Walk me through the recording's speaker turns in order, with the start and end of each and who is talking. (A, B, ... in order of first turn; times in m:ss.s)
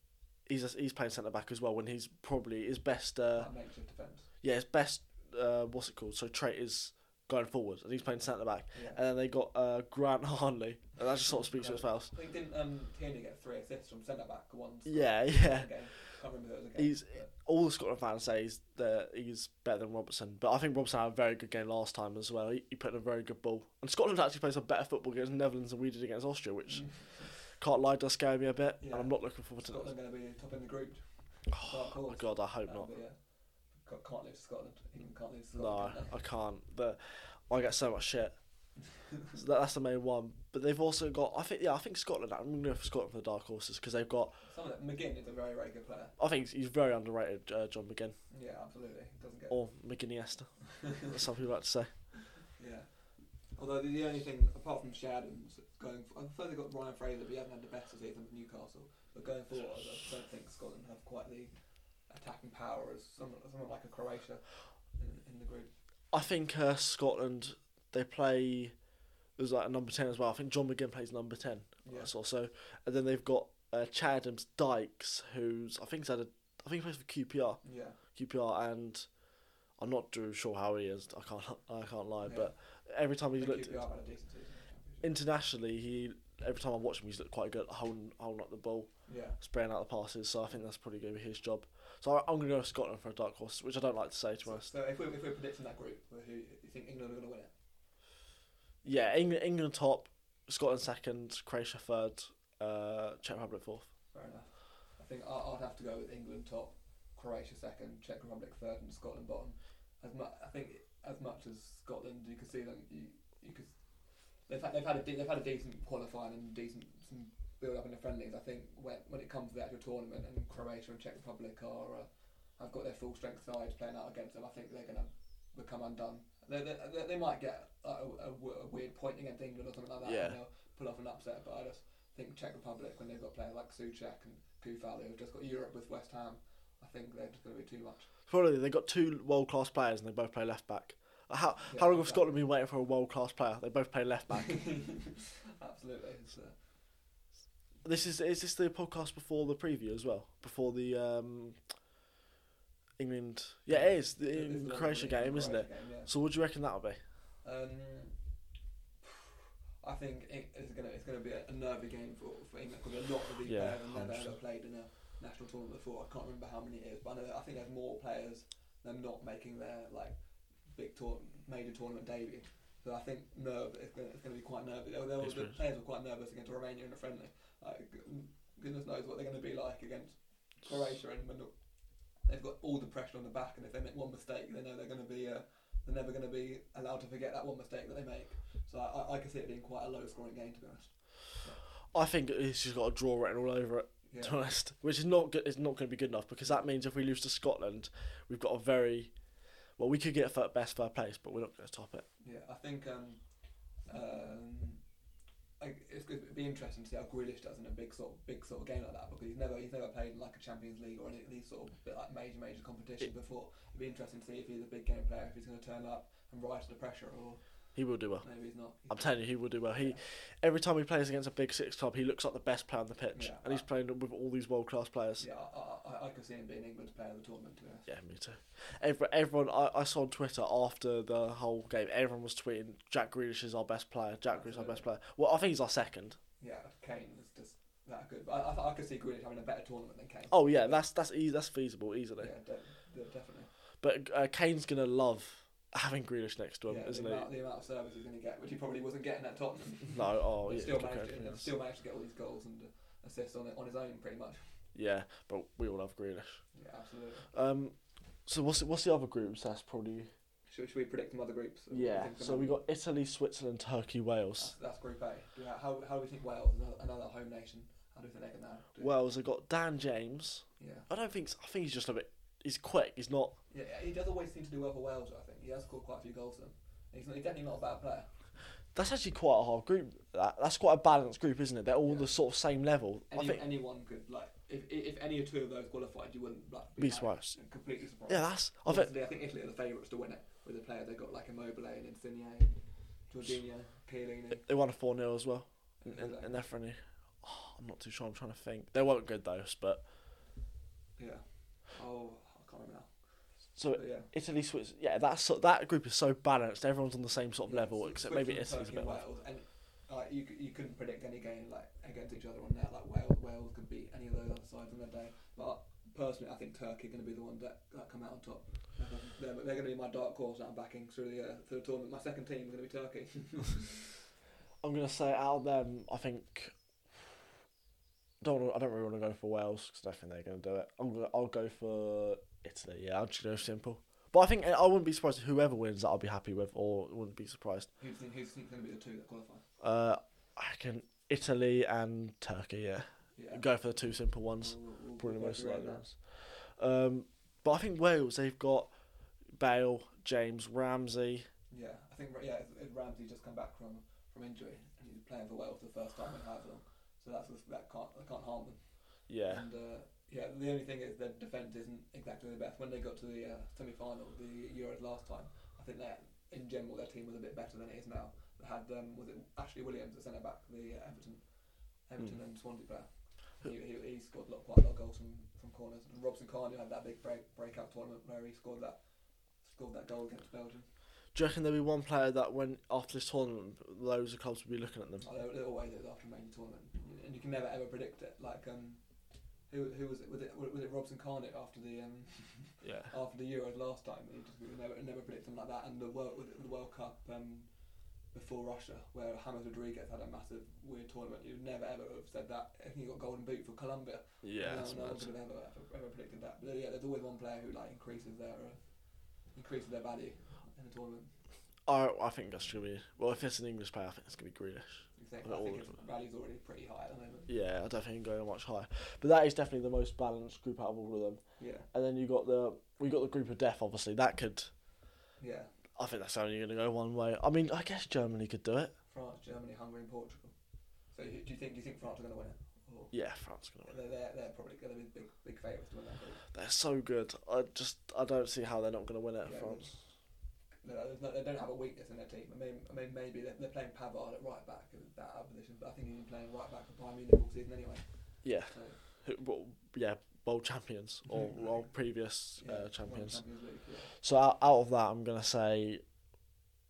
0:00.5-0:03.5 A
0:03.3-0:04.3 B
0:04.4-0:12.1 A
0:08.7-0:09.0 B
0:11.3-0:17.3 B
0:14.8-0:15.7 A
0:16.8-0:29.9 A
0:26.7-0:27.3 B
0:28.8-0:31.0 B
0:31.5-0:32.9 A
0:31.6-0:33.2 B
0:33.7-0:36.2 B
0:35.6-0:38.4 A
0:38.8-0:39.4 B
0:39.3-0:44.4 A
0:44.4-0:46.1 B
0:46.2-0:48.2 A
0:48.3-0:49.6 B
0:49.5-0:51.9 A
0:50.8-0:51.2 B
0:52.4-0:52.9 B
0:53.5-1:01.5 B
1:02.1-1:05.7 B
1:06.1-1:08.8 A
1:09.4-1:17.6 A
1:11.8-1:12.1 B
1:17.6-1:18.0 B
1:18.1-1:19.1 A
1:19.8-1:23.8 A
1:22.2-1:22.5 B
1:23.4-1:25.1 B
1:25.0-1:34.7 A
1:29.1-1:29.4 B
1:34.4-1:37.5 B
1:38.8-1:43.9 A
1:44.1-1:53.7 B
1:54.5-2:18.1 B
2:10.0-2:10.4 A
2:18.3-2:24.6 A
2:21.7-2:22.2 B
2:24.3-2:26.6 B
2:27.8-2:31.6 A
2:33.0-2:37.0 A
2:33.7-2:36.1 B
2:37.4-2:38.2 B
2:39.0-3:01.5 B
2:43.4-2:44.3 A
2:55.2-2:55.6 A
3:02.2-3:11.6 B
3:11.9-3:19.1 A
3:14.1-3:14.4 B
3:19.8-3:22.0 A
3:22.2-3:23.2 B
3:23.8-3:24.8 B
3:25.6-3:37.4 B
3:37.7-3:38.2 A
3:38.2-3:39.0 B
3:38.9-3:45.2 A
3:43.1-3:43.6 B
3:45.2-3:47.9 B
3:47.8-3:56.2 A
3:54.3-3:54.8 B
3:56.4-4:00.8 B
4:00.3-4:02.3 A
4:02.2-4:03.5 B
4:03.8-4:07.3 A
4:06.7-4:14.4 B
4:09.9-4:11.5 A
4:14.7-4:16.4 A
4:16.5-4:17.3 B
4:17.3-4:20.1 A
4:20.5-4:22.6 B
4:21.7-4:24.5 A
4:24.4-4:28.9 B
4:28.8-4:33.4 A
4:30.6-4:30.9 B
4:33.5-4:38.1 B
4:38.7-4:43.4 A
4:41.8-4:42.1 B
4:43.1-4:54.5 B
4:46.8-4:47.4 A
4:48.1-4:48.9 A
4:54.3-4:59.8 A
4:55.8-4:56.4 B
5:01.0-5:02.9 B
5:03.6-5:09.0 A
5:03.7-5:04.1 B
5:07.4-5:24.0 B
5:24.6-5:27.1 A
5:28.2-5:37.7 A
5:37.8-5:39.4 B
5:39.6-5:48.7 A
5:43.2-5:43.4 B
5:44.4-5:45.8 B
5:49.3-5:51.3 A
5:51.5-6:11.2 B
5:59.1-5:59.4 A
6:11.9-6:12.9 B
6:13.4-6:18.8 B
6:19.4-6:20.6 B
6:21.1-6:25.1 A
6:25.0-6:28.8 B
6:29.5-6:37.5 B
6:32.6-6:32.9 A
6:38.1-6:48.6 B
6:44.2-6:45.1 A
6:49.3-6:51.1 B
6:51.7-6:55.7 A
6:55.0-6:57.3 B
6:57.3-7:04.5 A
7:01.4-7:01.7 B
7:05.2-7:05.5 B
7:05.8-7:08.7 A
7:08.9-7:10.3 B
7:10.9-7:12.9 B
7:12.9-7:13.8 A
7:13.6-7:16.2 B
7:16.3-7:19.7 A
7:19.2-7:19.7 B
7:20.6-7:27.8 B
7:28.2-7:33.2 A
7:28.5-7:28.8 B
7:31.1-7:31.5 B
7:32.4-7:33.9 B
7:34.0-7:35.8 A